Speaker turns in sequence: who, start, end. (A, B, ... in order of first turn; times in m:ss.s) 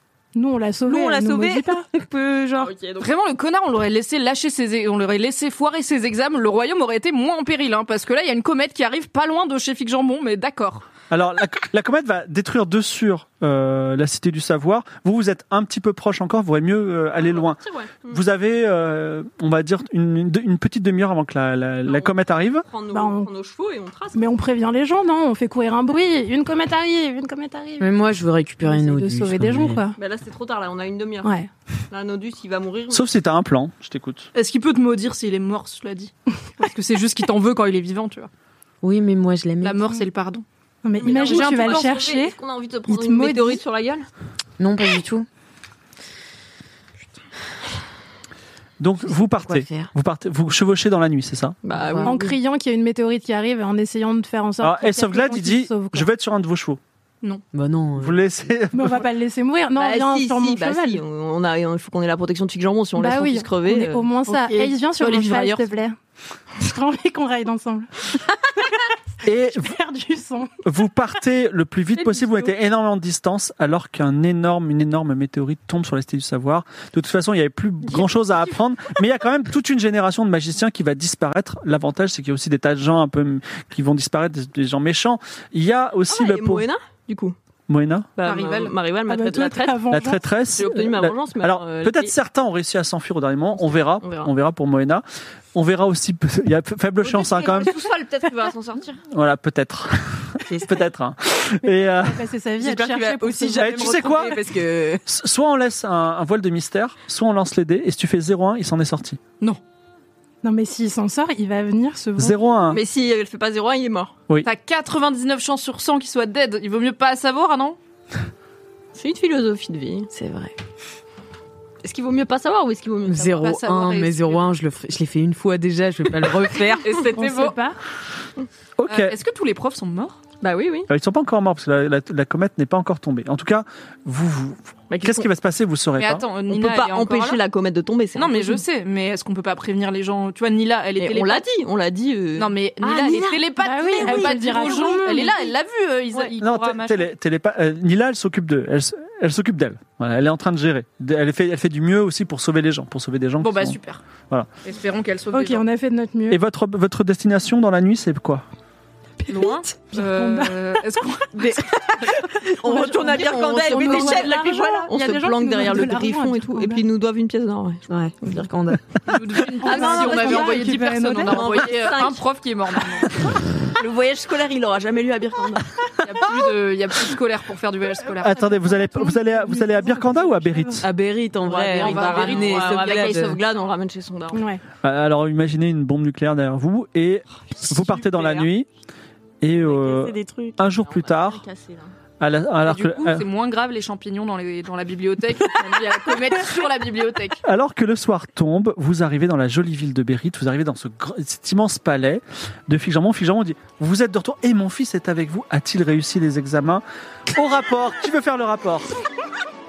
0:00.3-0:01.9 A
0:00.8-0:02.7 B
0:02.6-0:03.1 C
0:03.0-0:10.9 D
0:11.1-0:22.6 E
0:17.2-0:18.2 C
0:21.8-0:24.3 C
0:22.9-0:23.3 A
0:24.1-0:27.9 A
0:27.8-0:29.8 B
0:28.6-0:30.0 A
0:30.0-0:31.3 C
0:31.2-0:31.5 A
0:31.9-0:33.1 C
0:32.9-0:34.3 E
0:34.3-0:38.3 D
0:38.8-0:39.9 B
0:39.6-0:40.4 D
0:40.8-0:43.6 A
0:41.0-0:44.1 C
0:41.0-0:42.0 D
0:44.6-0:45.3 B
0:48.8-0:51.6 E
0:49.1-0:49.9 B
0:51.6-0:52.4 C
0:51.7-0:52.1 B
0:52.0-0:56.1 A
0:54.6-0:56.8 E
0:57.5-0:58.2 B
0:58.0-0:59.0 E
0:58.7-1:01.0 A
0:59.8-1:05.7 C
1:03.0-1:06.0 A
1:05.1-1:05.4 D
1:06.6-1:08.1 A
1:09.2-1:09.7 E
1:09.5-1:10.5 A
1:10.6-1:26.7 E
1:12.0-1:12.3 C
1:26.1-1:27.4 C
1:27.7-1:28.1 E
1:28.2-1:29.9 C
1:28.2-1:28.7 D
1:29.1-1:30.3 A
1:29.9-1:37.7 E
1:30.6-1:32.1 C
1:33.6-1:34.3 C
1:37.0-1:39.0 C
1:39.1-1:42.3 E
1:41.6-1:44.4 A
1:42.6-1:45.0 B
1:43.6-1:44.4 E
1:45.1-1:49.2 E
1:50.4-1:52.4 A
1:52.2-1:52.8 E
1:52.7-1:54.1 C
1:54.4-1:57.8 D
1:58.9-2:00.1 C
2:00.1-2:00.5 B
2:01.8-2:03.4 C
2:03.1-2:06.9 B
2:03.4-2:04.5 D
2:06.8-2:07.6 D
2:07.0-2:07.8 A
2:08.8-2:09.1 E
2:08.9-2:10.2 D
2:10.4-2:10.9 C
2:10.9-2:16.3 E
2:14.9-2:15.3 C
2:16.0-2:17.4 D
2:16.5-2:18.6 C
2:18.1-2:21.5 D
2:21.0-2:23.2 C
2:22.4-2:27.1 D
2:22.8-2:24.8 B
2:23.5-2:25.5 A
2:24.0-2:24.3 C
2:26.4-2:33.8 E
2:33.4-2:34.0 D
2:34.6-2:35.6 D
2:35.3-2:36.4 A
2:36.3-2:38.4 E
2:39.2-2:40.8 A
2:39.3-2:41.7 D
2:41.4-2:44.6 B
2:42.6-2:48.5 C
2:43.0-2:46.8 A
2:43.9-2:44.2 D
2:47.9-2:48.8 B
2:49.0-2:53.2 D
2:49.6-2:51.6 A
2:49.6-2:52.2 C
2:53.0-2:55.9 C
2:56.0-2:58.4 D
2:58.1-3:00.8 E
2:58.3-3:00.8 A
3:00.8-3:03.4 B
3:01.4-3:04.4 C
3:01.8-3:03.0 D
3:04.3-3:04.6 A
3:04.8-3:08.7 E
3:07.7-3:08.4 B
3:09.4-3:11.4 E
3:09.5-3:10.6 B
3:10.7-3:11.9 C
3:12.2-3:13.2 E
3:12.6-3:17.4 D
3:17.4-3:28.9 E